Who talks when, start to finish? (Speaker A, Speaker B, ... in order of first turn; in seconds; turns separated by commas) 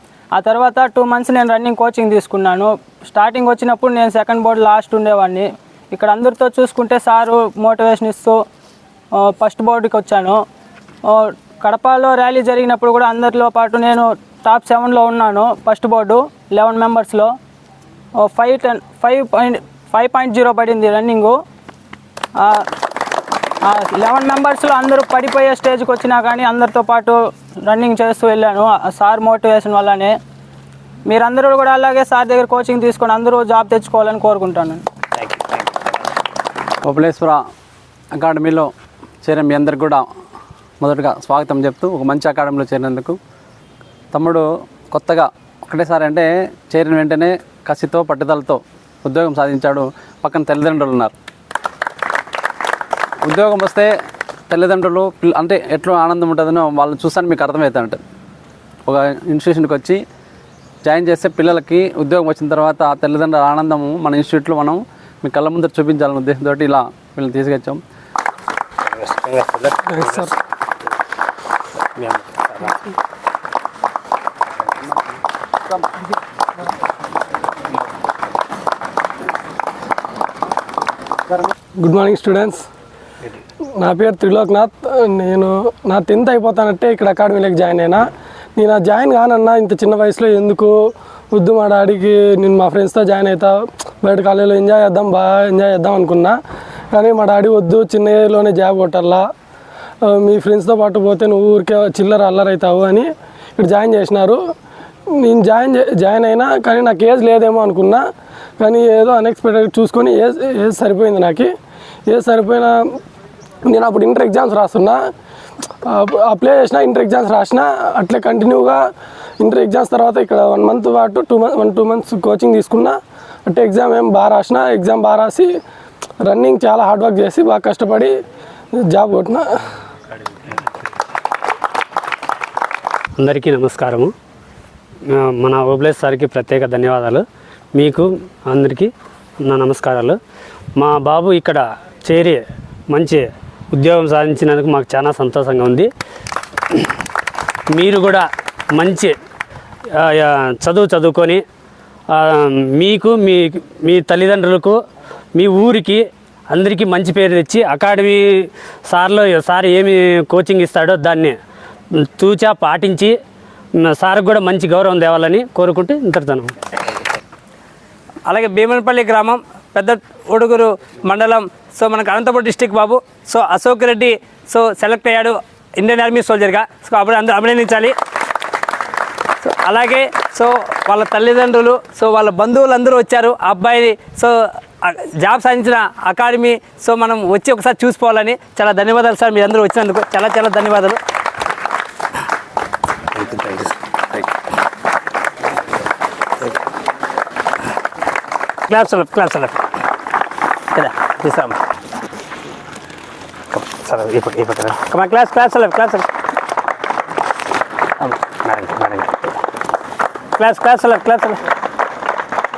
Speaker A: 0.3-8.4, Speaker A: 9.1-10.4, Speaker A: 11.1-17.3, Speaker A: 18.2-21.4, Speaker A: 22.4-22.7, Speaker A: 23.6-30.2, Speaker A: 31.1-34.8, Speaker B: 35.2-35.6, Speaker C: 36.8-37.4, Speaker C: 38.1-38.7, Speaker C: 39.2-40.1, Speaker C: 40.8-43.2, Speaker C: 44.1-51.1, Speaker C: 53.2-53.9, Speaker C: 54.5-58.0, Speaker C: 58.9-60.0, Speaker C: 60.8-67.8, Speaker B: 68.8-70.3, Speaker D: 69.9-70.3, Speaker B: 72.0-72.7, Speaker D: 81.8-82.6, Speaker D: 83.8-90.7, Speaker D: 91.3-96.4, Speaker D: 96.9-99.3, Speaker D: 100.1-104.4, Speaker D: 105.2-108.0, Speaker D: 108.6-111.5, Speaker D: 112.1-113.0, Speaker D: 113.7-115.0, Speaker D: 115.8-118.8, Speaker D: 119.4-125.5, Speaker D: 126.2-128.2, Speaker D: 128.8-129.6, Speaker E: 133.2-134.1, Speaker E: 135.1-137.2, Speaker E: 137.8-138.9, Speaker E: 139.4-140.2, Speaker E: 140.8-145.9, Speaker E: 147.7-149.2, Speaker E: 149.9-151.4, Speaker E: 152.1-154.8, Speaker E: 155.3-161.4, Speaker E: 162.2-163.1, Speaker E: 163.8-166.6, Speaker B: 168.3-177.9, Speaker B: 179.4-191.0, Speaker B: 193.1-194.2, Speaker B: 198.7-199.6, Speaker B: 200.7-201.6, Speaker B: 203.5-206.1, Speaker B: 208.0-209.3, Speaker B: 210.4-211.4